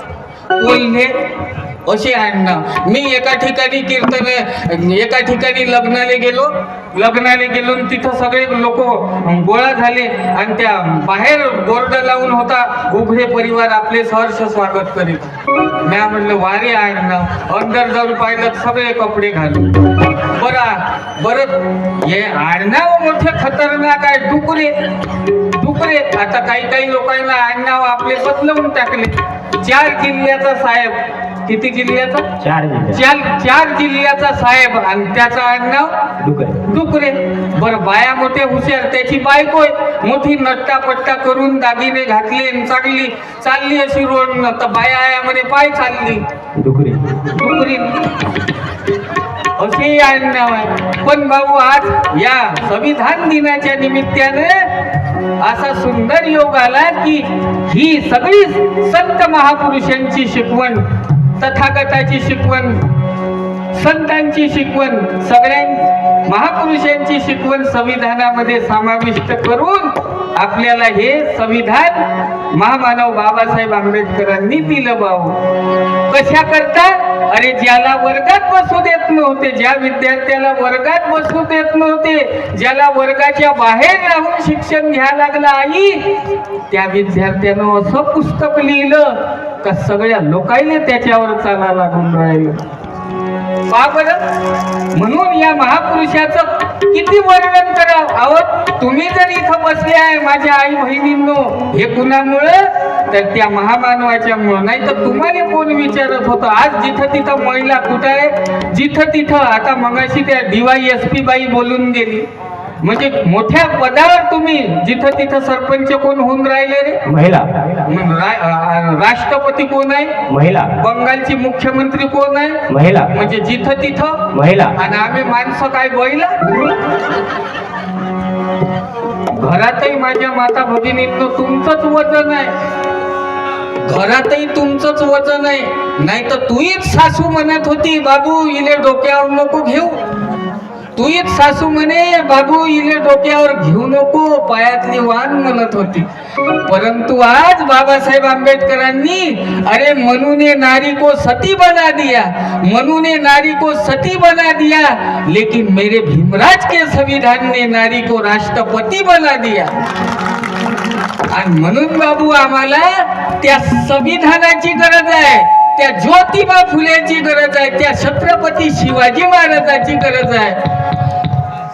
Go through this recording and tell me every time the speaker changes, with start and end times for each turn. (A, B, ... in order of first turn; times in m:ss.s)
0:00.5-0:32.3 A
0:32.4-0:33.0 B
0:32.9-0:36.1 A
0:36.2-0:36.6 B
0:36.6-0:46.2 A
0:46.6-0:47.2 B
0:47.2-0:48.0 A
0:49.6-0:54.8 A
0:55.4-1:02.9 A
1:03.7-1:15.4 A
1:16.1-1:32.6 A
1:33.7-1:34.3 A
1:34.9-1:52.3 A
1:52.8-1:57.0 A
1:57.1-1:57.8 B
1:57.8-2:00.2 A
2:00.3-2:00.7 B
2:00.7-2:06.4 A
2:02.7-2:03.1 B
2:04.3-2:04.7 B
2:09.3-2:12.5 A
2:13.8-2:20.0 A
2:21.0-2:26.1 A
2:26.6-2:39.7 A
2:41.3-2:50.6 A